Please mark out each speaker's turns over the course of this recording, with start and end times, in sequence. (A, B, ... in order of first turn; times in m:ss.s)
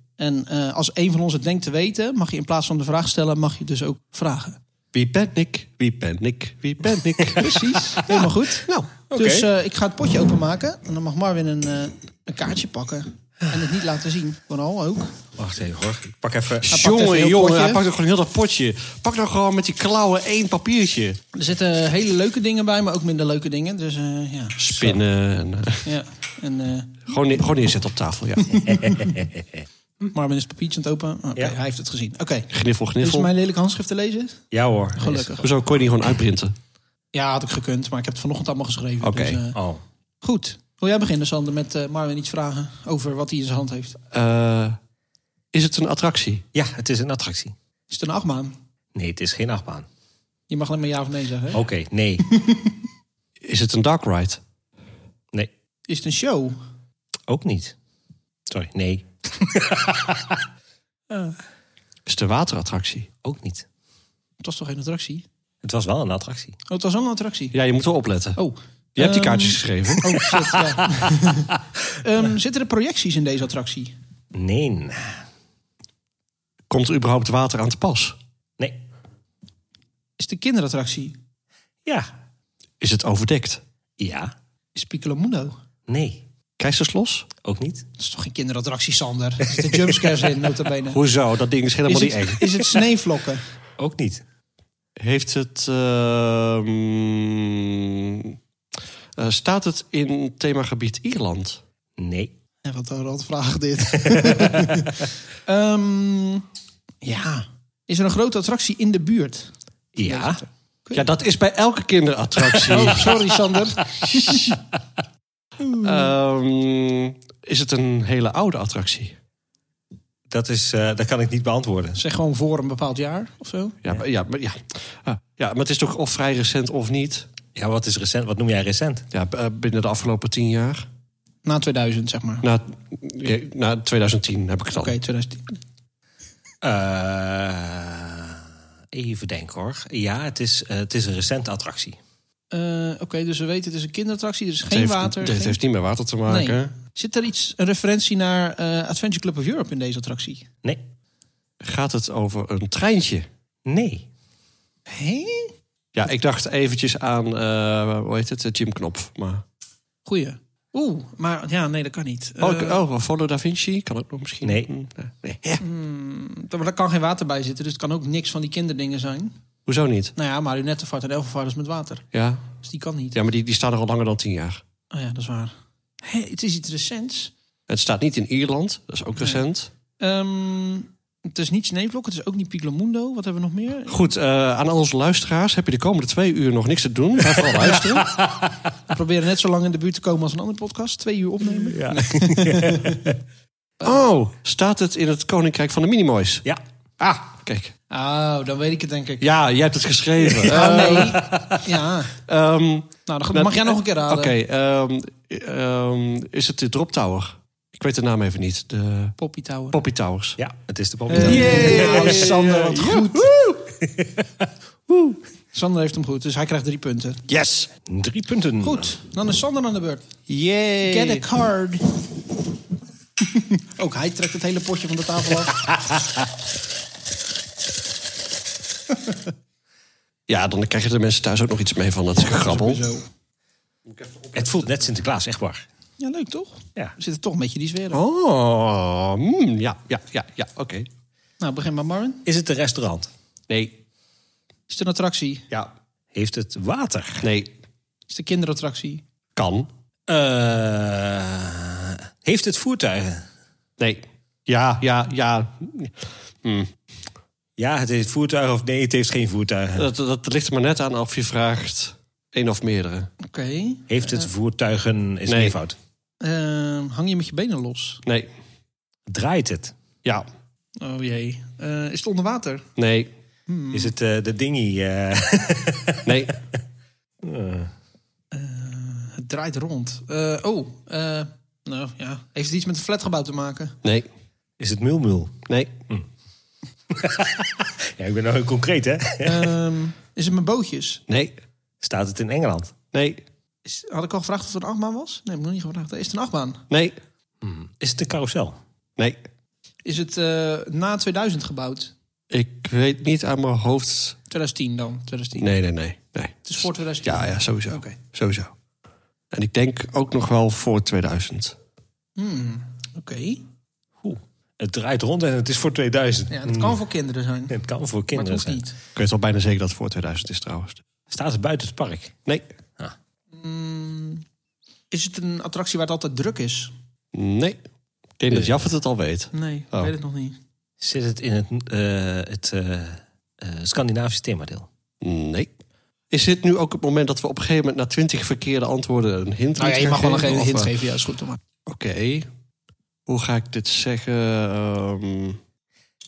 0:00.2-0:04.6 A
0:04.9-0:07.6 B
0:07.4-0:15.2 A
0:09.1-0:09.5 C
0:15.4-0:16.7 C
0:16.6-0:21.2 B
0:16.7-0:17.8 A
0:21.3-0:24.9 A
0:24.6-0:25.9 B
0:25.8-0:27.1 A
0:27.1-0:28.6 B
0:28.4-0:29.2 A
0:28.6-0:29.6 C
0:30.1-0:34.4 A
0:32.5-0:33.3 B
0:34.5-0:35.3 C
0:35.0-0:35.5 A
0:35.4-0:36.5 B
0:37.1-0:39.6 A
0:39.0-0:39.4 B
0:39.5-0:39.8 C
0:40.2-0:44.0 A
0:44.1-0:44.8 B
0:45.5-0:46.4 B
0:46.5-0:47.5 C
0:47.9-0:48.5 A
0:48.9-0:49.8 C
0:50.5-0:51.6 A
0:51.5-0:52.2 C
0:52.2-0:52.8 A
0:53.4-0:54.4 B
0:55.9-0:56.6 A
0:57.3-0:57.7 C
0:58.5-1:00.4 C
1:01.1-1:01.3 A
1:02.0-1:03.1 B
1:03.2-1:03.6 C
1:04.4-1:05.2 A
1:05.6-1:06.5 C
1:06.7-1:07.5 A
1:07.5-1:08.4 B
1:08.4-1:13.9 A
1:09.0-1:10.2 B
1:10.4-1:11.2 C
1:14.3-1:15.2 C
1:16.7-1:18.2 B
1:20.2-1:21.1 A
1:21.8-1:22.1 C
1:22.8-1:23.6 B
1:24.0-1:24.3 C
1:24.7-1:25.5 A
1:25.9-1:26.2 C
1:26.6-1:27.3 B
1:27.4-1:27.8 C
1:28.0-1:31.0 A
1:29.6-1:29.9 C
1:30.9-1:32.5 B
1:31.8-1:33.4 A
1:33.8-1:34.2 C
1:35.0-1:38.4 B
1:39.2-1:41.6 B
1:42.0-1:42.3 C
1:42.6-1:46.4 A
1:44.0-1:44.9 C
1:47.0-1:51.1 A
1:49.9-1:50.4 C
1:50.9-1:53.2 B
1:52.6-1:54.5 A
1:54.1-1:54.5 B
1:55.6-1:56.0 A
1:55.8-1:59.1 B
2:00.3-2:02.0 C
2:02.0-2:03.8 A
2:03.8-2:07.3 B
2:07.5-2:09.0 C
2:09.1-2:10.8 B
2:11.4-2:12.4 A
2:12.4-2:14.9 B
2:14.7-2:15.4 A
2:16.6-2:22.0 C
2:22.5-2:25.6 A
2:24.7-2:26.7 B
2:26.3-2:30.4 A
2:31.6-2:33.3 B
2:33.6-2:34.0 C
2:34.9-2:35.5 A
2:35.9-2:39.4 B
2:40.0-2:42.8 A
2:42.4-2:45.6 B
2:44.4-2:44.7 C
2:45.6-2:49.3 A
2:49.6-2:50.1 B
2:50.2-2:52.0 A
2:52.1-2:52.4 B
2:52.6-2:53.2 A
2:53.1-2:54.6 B
2:54.9-2:57.3 A
2:57.7-2:59.7 B
3:00.0-3:04.0 A
3:03.9-3:08.1 B
3:07.4-3:08.5 C
3:08.9-3:13.1 A
3:11.6-3:13.2 C
3:13.8-3:16.4 B
3:17.0-3:17.7 B
3:17.9-3:19.2 A
3:19.2-3:21.4 B
3:20.4-3:22.1 A
3:22.2-3:29.2 B
3:23.1-3:24.3 A
3:29.2-3:29.8 A
3:29.7-3:30.4 B
3:30.4-3:35.2 C
3:31.1-3:33.3 A
3:31.1-3:33.4 B
3:35.5-3:37.2 A
3:37.3-3:37.7 B
3:37.8-3:38.9 C
3:38.6-3:40.2 A
3:40.3-3:41.2 B
3:40.8-3:41.9 A
3:43.2-3:45.6 A
3:45.6-3:46.2 C
3:50.3-3:52.8 B
3:52.2-3:53.0 A
3:53.9-3:54.7 B
3:54.3-3:55.6 C
3:56.0-3:58.0 A
3:57.9-4:00.9 B
4:01.4-4:02.2 A
4:02.2-4:03.1 C
4:03.5-4:03.7 B
4:04.7-4:05.5 A
4:06.1-4:07.2 C
4:07.2-4:07.5 B
4:08.1-4:09.0 A
4:09.4-4:09.7 B
4:10.1-4:13.3 C
4:13.8-4:16.7 B
4:17.6-4:19.9 C
4:19.7-4:23.1 B
4:23.2-4:24.3 A
4:23.9-4:25.8 C
4:25.3-4:25.6 B
4:26.2-4:28.0 A
4:29.1-4:29.7 C
4:30.8-4:32.7 A
4:32.8-4:33.1 B
4:33.5-4:33.9 A
4:33.7-4:36.2 C
4:36.0-4:36.3 B
4:37.2-4:37.7 C
4:38.3-4:43.8 A
4:44.6-4:45.4 C
4:45.5-4:45.7 B
4:46.9-4:49.5 C
4:49.2-4:51.0 A
4:51.1-4:51.3 B
4:51.8-4:52.7 C
4:52.9-4:53.2 B
4:53.6-4:56.6 A
4:56.7-4:56.9 B
4:57.4-4:58.6 C
4:59.8-5:01.9 A
5:02.3-5:04.2 B
5:04.3-5:05.5 A
5:05.4-5:08.5 B
5:06.4-5:08.0 A
5:09.3-5:11.6 B
5:12.2-5:13.4 A
5:14.0-5:16.8 C
5:16.3-5:17.6 A
5:17.5-5:18.6 C
5:18.1-5:18.7 A
5:18.9-5:20.8 B
5:21.1-5:22.2 C
5:23.3-5:24.2 A
5:24.9-5:26.7 A
5:27.1-5:27.6 B
5:28.2-5:29.9 B
5:28.3-5:28.6 C
5:29.3-5:30.4 A
5:30.8-5:34.7 C
5:35.0-5:35.5 B
5:36.1-5:40.7 B
5:39.6-5:41.4 A
5:41.6-5:42.3 B
5:43.0-5:45.4 B